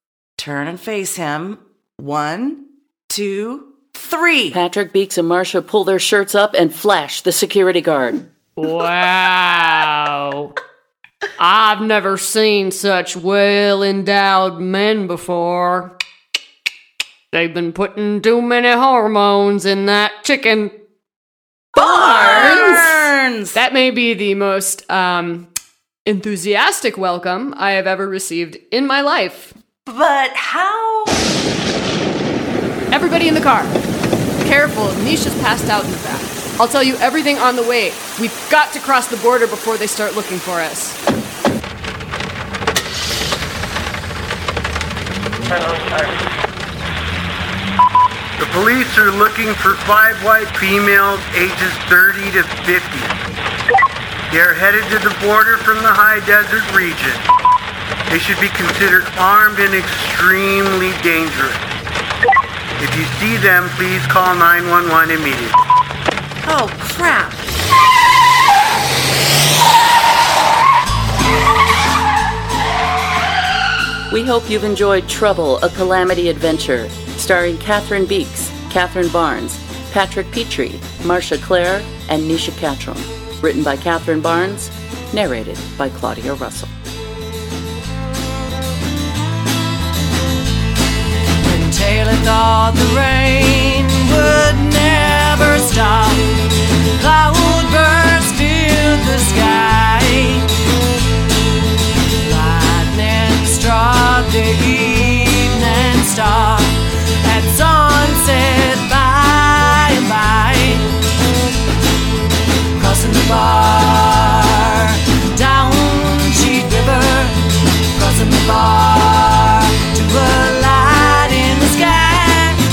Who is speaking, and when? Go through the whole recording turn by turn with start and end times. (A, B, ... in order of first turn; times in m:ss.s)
0:00.4-0:04.6 A
0:04.5-0:08.3 B
0:08.6-0:10.5 C
0:11.4-0:15.9 C
0:17.3-0:20.7 C
0:21.8-0:23.0 D
0:21.8-0:23.6 A
0:22.3-0:22.9 C
0:23.5-0:25.5 C
0:26.1-0:29.5 C
0:29.9-0:31.2 D
0:32.9-0:33.8 C
0:34.4-0:41.0 C
0:48.4-0:53.2 E
0:54.3-0:57.2 E
0:58.1-1:01.7 E
1:02.8-1:05.6 E
1:06.5-1:07.5 A
1:14.1-1:26.7 B
1:31.4-1:36.2 F
1:37.0-1:40.5 F
1:42.2-1:50.9 F
1:52.8-1:57.4 F
1:57.9-2:02.6 F